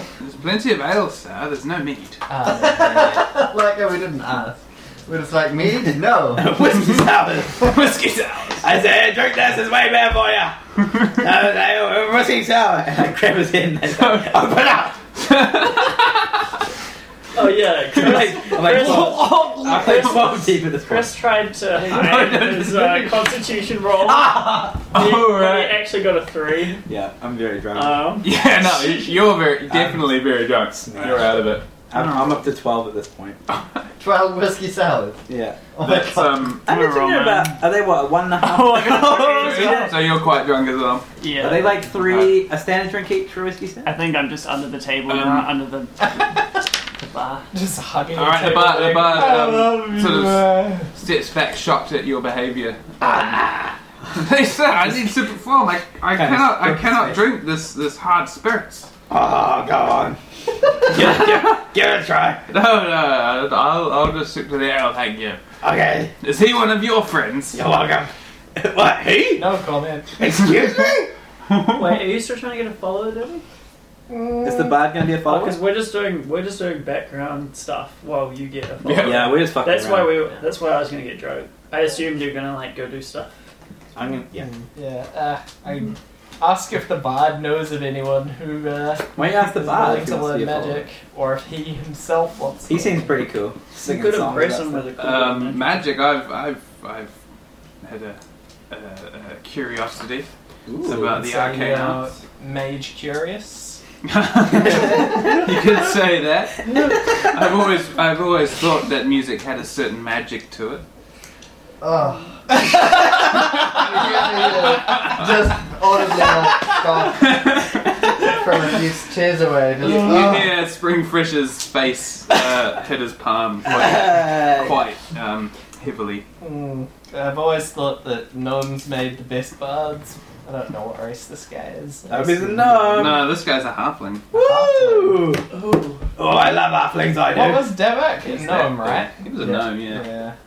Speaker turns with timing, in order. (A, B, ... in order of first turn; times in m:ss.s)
0:00.2-0:02.2 A
0:02.3-0:03.2 B
0:02.4-0:06.5 C
0:06.3-0:07.8 D
0:07.6-0:08.6 A
0:08.6-0:15.0 D
0:13.9-0:14.6 A
0:15.1-0:16.4 A
0:17.4-0:26.8 E
0:17.9-0:21.1 D
0:18.0-0:20.3 A
0:21.8-0:23.2 A
0:24.0-0:24.8 D
0:24.9-0:25.8 A
0:26.9-0:28.2 D
0:27.7-0:29.1 E
0:28.2-0:31.7 A
0:29.7-0:30.2 D
0:30.8-0:33.4 D
0:33.5-0:33.8 A
0:34.0-0:36.5 C
0:35.3-0:35.6 D
0:35.8-0:36.7 A
0:36.6-0:39.9 D
0:36.7-0:37.7 E
0:38.4-0:39.9 E
0:38.9-0:41.1 A
0:41.2-0:41.9 E
0:41.4-0:43.9 D
0:41.9-0:42.4 A
0:43.8-0:46.4 E
0:45.1-0:45.5 A
0:47.1-0:47.5 E
0:47.5-0:50.9 B
0:48.2-0:53.5 A
0:53.0-0:53.8 D
0:54.1-0:58.9 A
0:56.1-0:57.2 D
0:59.1-1:00.2 D
1:00.8-1:02.4 D
1:01.0-1:01.6 A
1:02.5-1:05.4 A
1:05.6-1:06.1 D
1:06.2-1:07.6 A
1:07.5-1:09.5 D
1:09.4-1:10.1 B
1:10.2-1:11.1 D
1:11.5-1:11.8 A
1:11.6-1:13.4 E
1:14.1-1:14.8 B
1:14.4-1:15.6 D
1:15.2-1:23.4 E
1:18.8-1:19.4 A
1:19.0-1:20.2 D
1:24.0-1:24.5 D
1:24.4-1:33.3 B
1:29.2-1:30.9 D
1:32.7-1:34.9 D
1:33.8-1:35.8 E
1:35.0-1:37.1 A
1:37.8-1:40.3 A
1:40.7-1:41.2 D
1:40.8-1:42.1 A
1:40.9-1:43.8 B
1:44.0-1:50.8 A
1:51.8-2:00.6 C
1:57.2-1:57.7 A
1:59.8-2:06.3 A
2:03.7-2:04.8 D
2:06.4-2:13.2 B
2:12.1-2:13.3 D
2:12.9-2:14.3 A
2:14.3-2:15.5 D
2:14.3-2:16.0 B
2:16.2-2:17.7 D
2:17.3-2:20.4 B
2:18.2-2:20.1 A